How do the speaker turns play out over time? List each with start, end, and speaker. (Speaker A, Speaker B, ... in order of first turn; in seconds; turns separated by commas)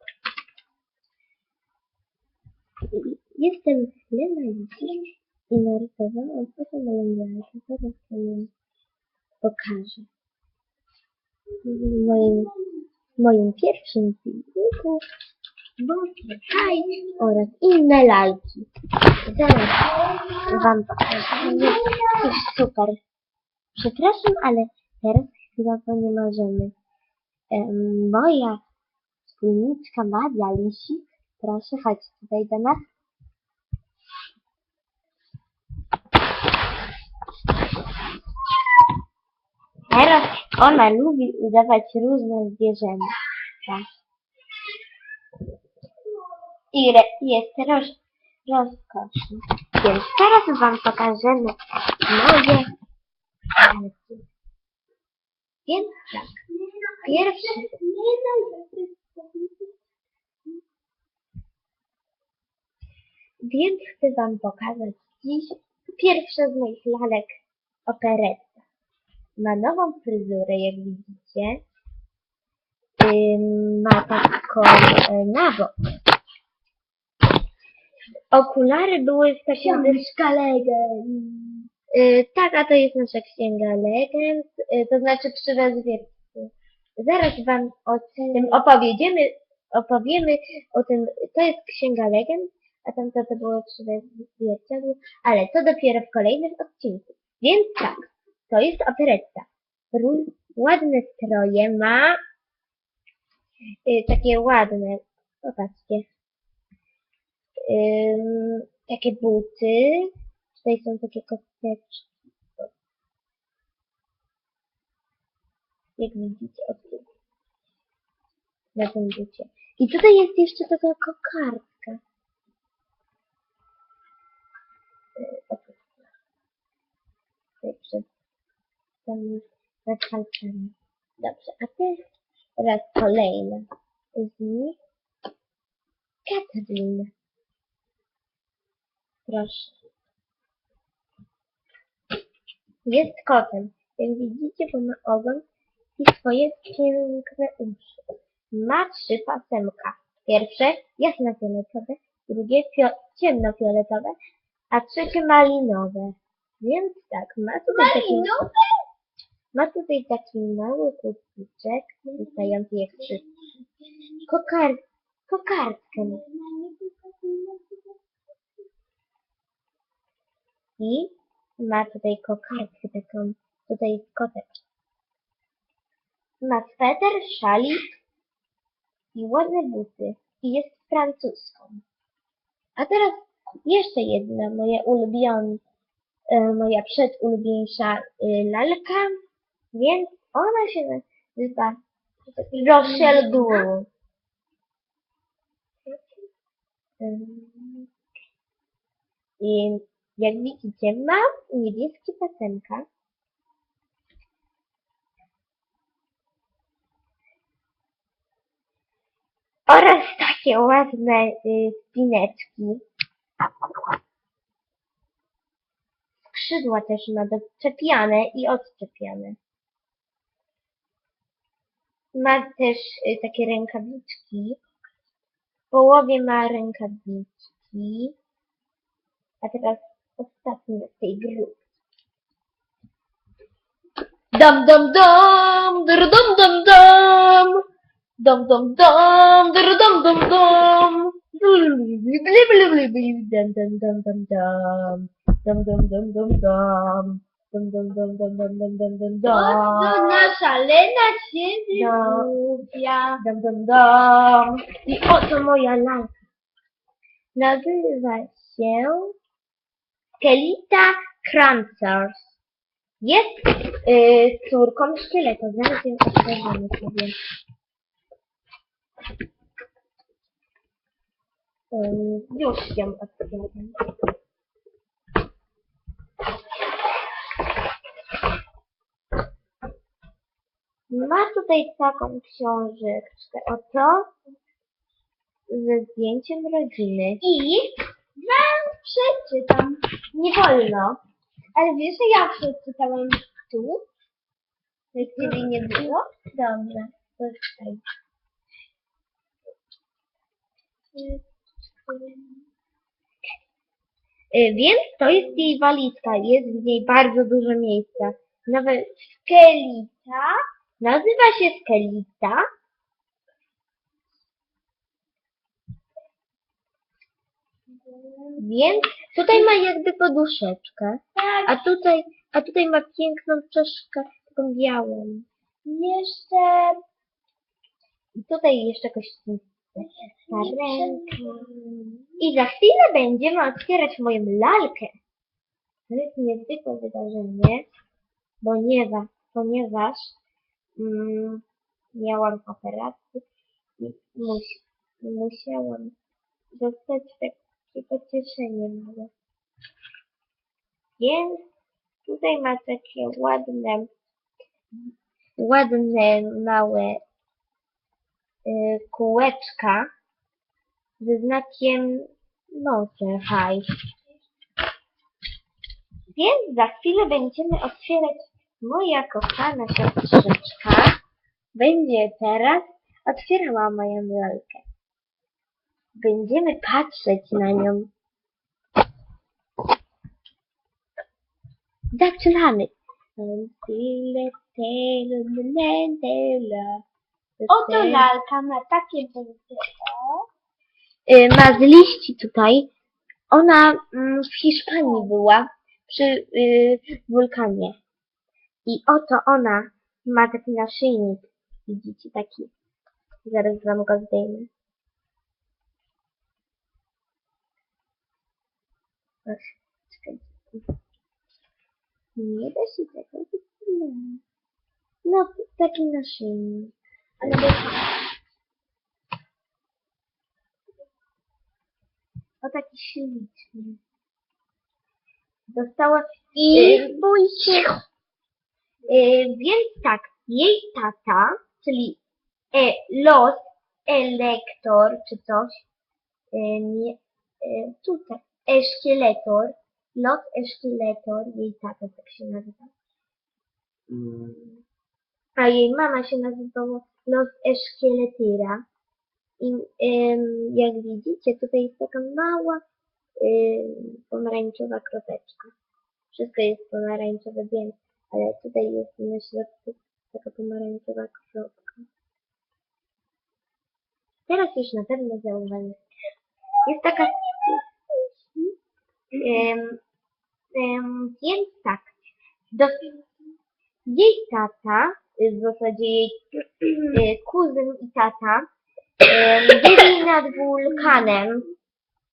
Speaker A: 2.9-8.5, Speaker A: 9.4-10.1, Speaker A: 11.6-12.5, Speaker A: 13.2-15.0, Speaker A: 15.8-18.7, Speaker A: 19.2-19.9, Speaker A: 20.4-23.0, Speaker B: 21.6-22.0, Speaker A: 23.8-26.7, Speaker A: 27.5-28.6, Speaker A: 29.3-32.8, Speaker A: 39.9-43.8, Speaker A: 46.7-52.7, Speaker A: 53.6-54.2, Speaker A: 55.7-56.3, Speaker B: 56.7-59.7, Speaker A: 57.0-57.7, Speaker A: 63.4-67.3, Speaker A: 67.9-68.6, Speaker A: 69.4-71.6, Speaker A: 73.0-75.7, Speaker A: 78.3-80.0, Speaker B: 79.6-81.7, Speaker A: 81.9-102.2, Speaker B: 88.3-88.6, Speaker A: 103.9-106.1, Speaker A: 107.7-112.1, Speaker A: 116.0-117.0, Speaker A: 118.8-122.0, Speaker A: 125.2-125.9, Speaker A: 127.6-128.1, Speaker A: 129.1-132.0, Speaker A: 132.6-133.7, Speaker A: 134.2-134.8, Speaker A: 136.2-137.1, Speaker A: 139.3-139.8, Speaker A: 142.8-145.4, Speaker A: 146.0-148.0, Speaker A: 148.5-154.2, Speaker A: 154.7-158.3, Speaker B: 157.7-158.7, Speaker A: 159.5-163.2, Speaker B: 162.2-162.5, Speaker A: 164.3-166.2, Speaker B: 166.0-168.0, Speaker A: 170.8-174.6, Speaker A: 176.4-178.0, Speaker A: 179.2-181.8, Speaker A: 182.8-185.6, Speaker A: 186.3-189.2, Speaker A: 189.7-191.8, Speaker A: 192.4-193.9, Speaker A: 197.0-197.9, Speaker A: 199.4-202.8, Speaker A: 209.7-212.8, Speaker A: 216.2-219.4, Speaker A: 222.1-224.6, Speaker A: 225.7-228.2, Speaker A: 229.4-231.6, Speaker A: 234.3-237.6, Speaker A: 238.2-250.3, Speaker B: 249.3-253.2, Speaker A: 251.7-252.3, Speaker A: 253.2-256.1, Speaker A: 257.4-259.1, Speaker A: 260.2-262.2, Speaker A: 263.0-267.1, Speaker A: 271.7-273.8, Speaker A: 280.9-284.1, Speaker A: 285.5-287.3, Speaker B: 287.3-289.8, Speaker A: 290.1-291.0, Speaker B: 291.6-293.8, Speaker B: 294.9-295.7, Speaker A: 294.9-297.8, Speaker B: 300.9-301.2, Speaker B: 301.9-302.4, Speaker A: 304.3-310.1, Speaker A: 310.8-312.4, Speaker B: 317.9-318.4, Speaker A: 318.4-325.2, Speaker B: 321.2-321.5, Speaker B: 325.6-326.8, Speaker A: 328.2-331.5, Speaker B: 330.0-332.1, Speaker A: 332.2-334.9, Speaker A: 335.9-337.7, Speaker A: 338.4-340.1, Speaker A: 340.8-343.2, Speaker A: 343.8-345.9, Speaker A: 346.5-349.1, Speaker A: 351.0-351.4, Speaker A: 352.1-353.9, Speaker A: 355.4-357.0, Speaker A: 358.4-359.9, Speaker A: 361.0-363.6, Speaker A: 366.1-371.0, Speaker A: 371.6-374.6, Speaker A: 376.0-377.9, Speaker A: 381.9-386.8, Speaker A: 387.4-388.1, Speaker B: 387.5-390.2, Speaker A: 391.1-392.7, Speaker A: 393.3-397.8, Speaker A: 398.6-402.5, Speaker A: 403.2-404.5, Speaker A: 409.2-410.6, Speaker A: 412.2-414.2, Speaker A: 415.1-417.8, Speaker B: 417.2-417.7, Speaker A: 422.4-423.8, Speaker A: 425.5-427.0, Speaker B: 426.4-427.8, Speaker A: 428.9-432.0, Speaker A: 432.5-435.6, Speaker A: 436.3-442.7, Speaker A: 443.9-444.6, Speaker A: 445.4-448.6, Speaker A: 449.4-452.6, Speaker A: 453.2-455.5, Speaker A: 456.1-461.9, Speaker A: 464.3-465.8, Speaker A: 466.6-467.6, Speaker A: 469.2-469.8, Speaker A: 470.5-471.9, Speaker A: 472.5-472.9, Speaker A: 473.9-478.4, Speaker A: 479.1-481.5